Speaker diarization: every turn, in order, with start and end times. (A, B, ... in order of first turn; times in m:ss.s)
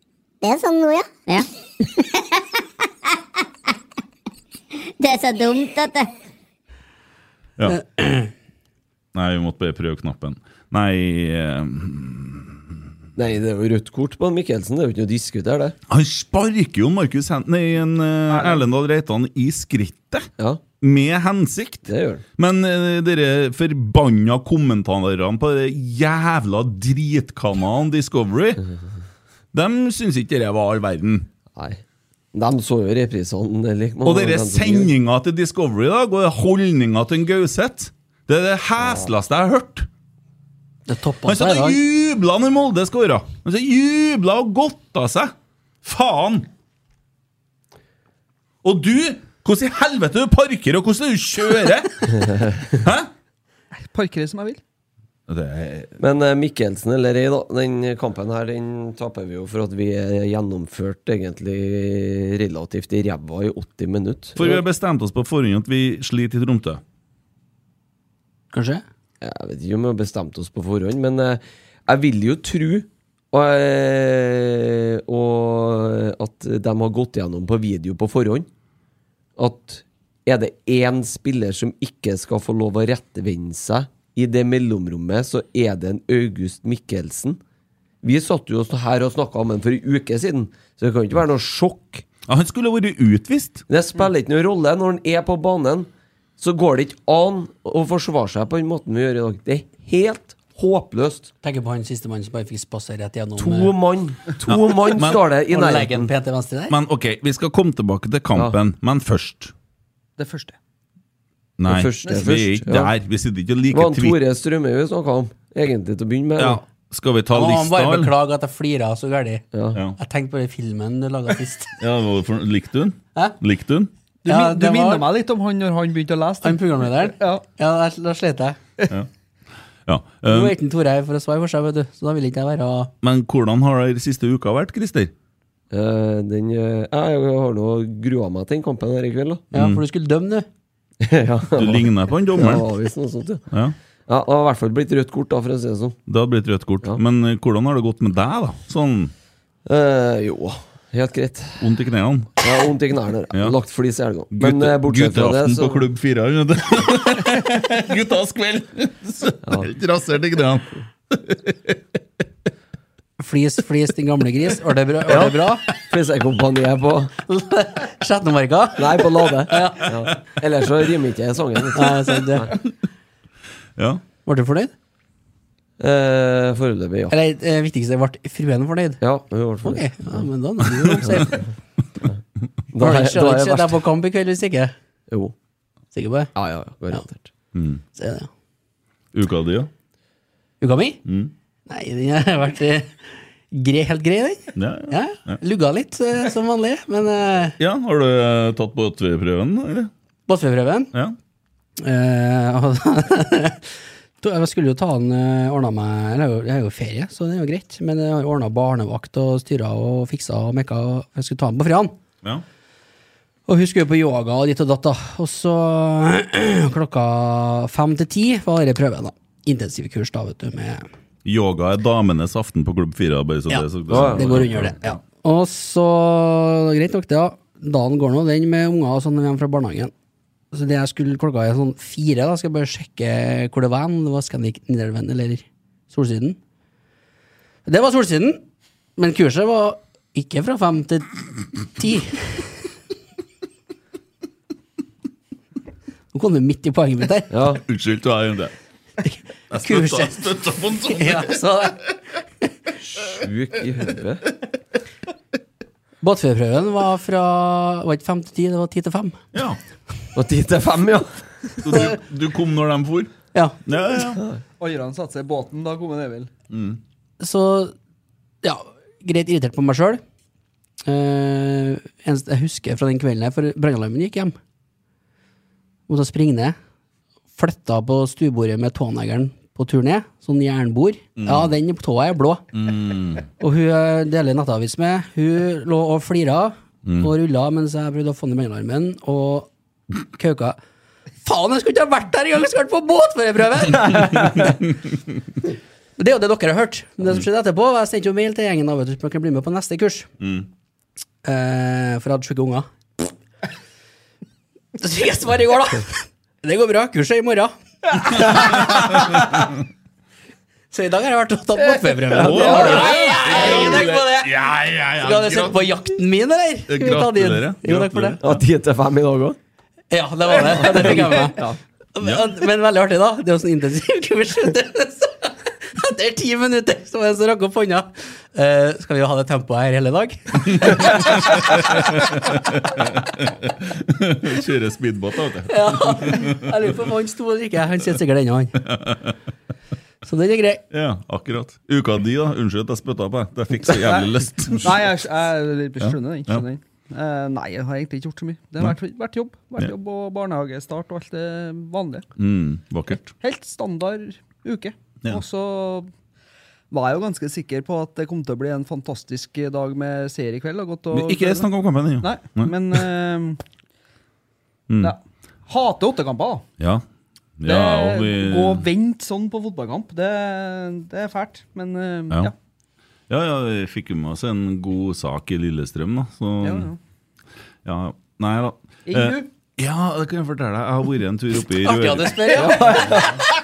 0:00.4-0:02.2 A
0:05.0-0:06.1 A
0:07.7-0:08.3 B
0:09.2-0:12.6 C
0:13.2-0:15.8 D
0:15.9-0:20.3 C
0:18.3-0:18.6 E
0:20.8-0:28.6 C
0:21.9-0:22.2 D
0:29.5-0:31.3 C
0:31.5-0:31.8 D
0:32.3-0:34.9 D
0:34.0-0:39.9 C
0:38.8-0:39.1 D
0:40.9-0:41.8 B
0:41.3-0:45.3 C
0:45.8-0:46.5 C
0:48.6-0:53.1 C
0:52.2-0:52.7 D
0:53.7-0:54.6 E
0:55.3-0:56.0 C
0:56.0-1:04.6 D
1:04.4-1:06.8 C
1:08.5-1:08.8 B
1:09.2-1:18.5 D
1:19.4-1:27.4 D
1:28.0-1:32.0 D
1:32.3-1:33.6 C
1:33.7-1:41.3 D
1:41.4-1:43.7 B
1:43.4-1:46.1 D
1:44.5-1:45.2 C
1:45.5-1:46.7 B
1:46.7-1:49.5 C
1:50.2-1:50.6 E
1:51.6-1:54.2 C
1:51.7-1:52.9 D
1:53.7-1:56.6 D
1:56.4-1:58.1 C
1:57.3-1:59.4 B
1:59.5-1:59.8 D
2:00.0-2:01.7 B
2:01.8-2:03.9 C
2:04.2-2:07.4 E
2:04.3-2:05.1 B
2:06.4-2:08.6 B
2:09.9-2:10.6 C
2:10.3-2:12.9 B
2:13.0-2:15.1 C
2:15.7-2:19.5 D
2:19.5-2:20.5 B
2:19.5-2:19.8 C
2:21.0-2:23.4 D
2:21.6-2:22.7 C
2:23.5-2:23.8 C
2:24.1-2:26.0 D
2:26.1-2:29.1 C
2:29.7-2:31.7 D
2:31.6-2:32.5 C
2:32.4-2:35.8 D
2:34.3-2:41.8 C
2:39.4-2:39.7 D
2:43.2-2:45.6 B
2:45.1-2:47.1 D
2:47.3-2:49.9 B
2:48.8-2:52.5 D
2:51.8-2:52.5 B
2:53.8-2:54.0 C
2:54.3-2:54.7 B
2:55.8-2:57.2 D
2:57.1-2:59.0 B
2:59.0-3:00.3 D
2:59.6-3:01.4 B
3:02.7-3:03.8 D
3:02.8-3:04.7 B
3:05.9-3:06.3 B
3:06.4-3:07.3 D
3:07.5-3:07.8 C
3:08.0-3:08.3 B
3:09.1-3:09.7 C
3:10.6-3:11.0 B
3:11.1-3:11.3 C
3:11.7-3:12.9 B
3:13.5-3:17.6 B
3:14.6-3:15.4 C
3:17.6-3:19.9 C
3:20.3-3:20.9 B
3:21.8-3:31.9 B
3:33.5-3:40.9 B
3:41.2-3:45.0 C
3:43.5-3:49.9 B
3:43.9-3:44.6 D
3:50.5-3:56.4 B
3:57.7-3:58.4 B
3:59.0-4:01.1 B
4:01.8-4:02.5 B
4:06.1-4:07.3 B
4:07.3-4:07.6 D
4:07.7-4:08.5 C
4:09.0-4:10.2 B
4:09.5-4:11.4 C
4:11.0-4:11.8 B
4:12.8-4:14.2 D
4:16.0-4:19.2 B
4:19.3-4:19.6 C
4:20.2-4:21.1 D
4:21.6-4:23.1 C
4:23.7-4:24.2 C
4:24.6-4:26.3 E
4:26.5-4:26.8 C
4:27.2-4:27.7 B
4:28.4-4:30.0 B
4:30.9-4:34.4 B
4:35.9-4:36.6 B
4:37.4-4:42.4 B
4:41.2-4:41.5 C
4:42.5-4:43.2 C
4:43.4-4:49.5 B
4:46.8-4:47.1 C
4:50.2-4:50.6 B
4:51.2-4:54.6 B
4:56.0-5:00.1 B
5:00.2-5:00.5 C
5:01.2-5:02.7 B
5:04.8-5:09.4 B
5:08.5-5:09.1 C
5:10.7-5:14.4 B
5:12.1-5:12.8 D
5:12.2-5:15.8 C
5:12.7-5:13.2 E
5:15.0-5:18.2 B
5:16.7-5:18.4 C
5:18.2-5:19.4 D
5:19.9-5:21.4 B
5:20.4-5:21.6 D
5:22.0-5:31.1 B
5:22.0-5:22.3 C
5:30.7-5:36.4 C
5:35.5-5:38.6 B
5:38.7-5:39.1 C
5:40.0-5:40.6 B
5:40.7-5:45.0 C
5:43.7-5:52.1 E
5:45.8-5:46.4 C
5:52.2-5:53.1 C
5:53.2-5:55.9 E
5:56.7-6:01.5 E
6:00.9-6:02.8 C
6:02.0-6:03.4 E
6:04.7-6:05.0 C
6:04.8-6:06.4 E
6:06.6-6:06.8 C
6:07.4-6:08.7 C
6:07.4-6:12.3 E
6:13.1-6:16.7 C
6:16.4-6:16.8 E
6:17.6-6:22.7 C
6:18.9-6:19.3 E
6:21.6-6:23.1 B
6:22.4-6:23.1 E